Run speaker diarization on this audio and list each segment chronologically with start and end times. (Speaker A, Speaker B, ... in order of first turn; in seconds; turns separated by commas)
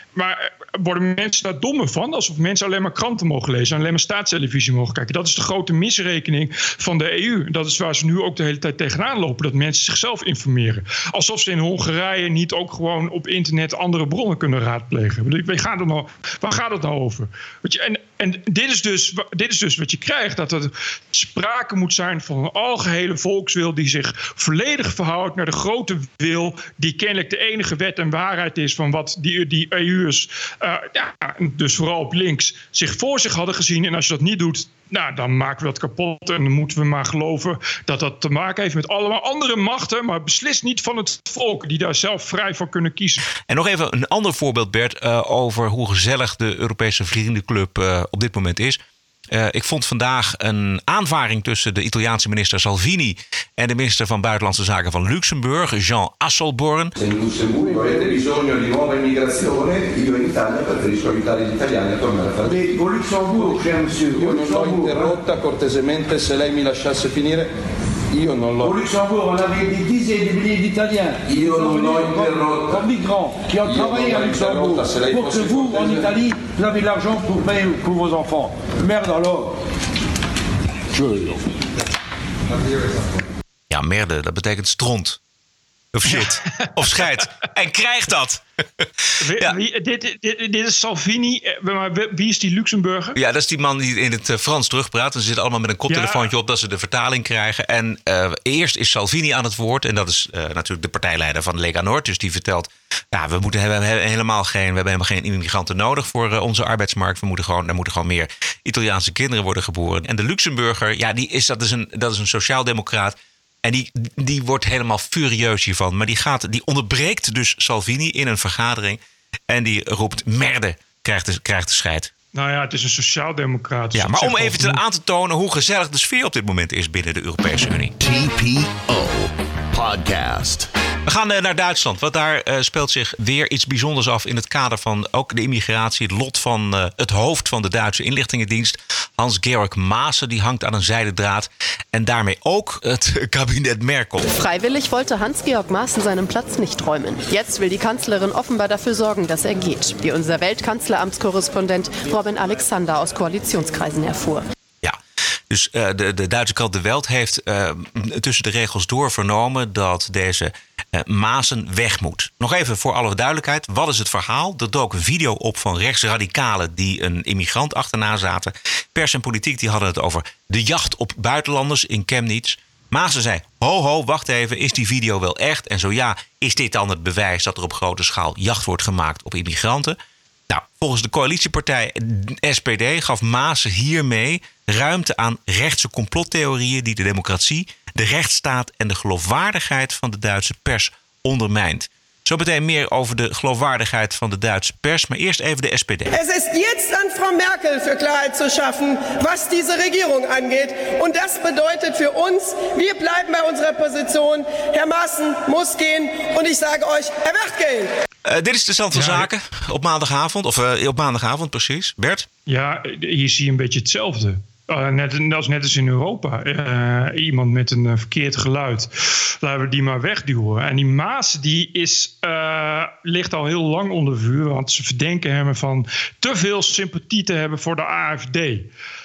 Speaker A: 0.1-43.2, Speaker B: 43.4-57.0, Speaker C: 57.0-63.5, Speaker D: 62.5-65.0, Speaker C: 64.0-67.5, Speaker C: 68.1-68.9, Speaker D: 68.7-79.5, Speaker C: 71.2-72.9, Speaker C: 73.4-76.3, Speaker D: 81.0-81.2, Speaker B: 83.7-85.2, Speaker B: 85.9-88.4, Speaker A: 86.1-87.0, Speaker A: 89.2-93.2, Speaker B: 93.2-122.1, Speaker A: 95.9-96.3, Speaker A: 122.3-124.8, Speaker B: 123.9-127.9, Speaker E: 128.0-130.7, Speaker B: 131.1-144.3, Speaker F: 144.3-154.4, Speaker B: 155.5-180.0, Speaker B: 180.5-196.1, Speaker G: 196.1-207.9, Speaker B: 208.2-212.3, Speaker A: 208.9-209.3, Speaker A: 212.5-228.7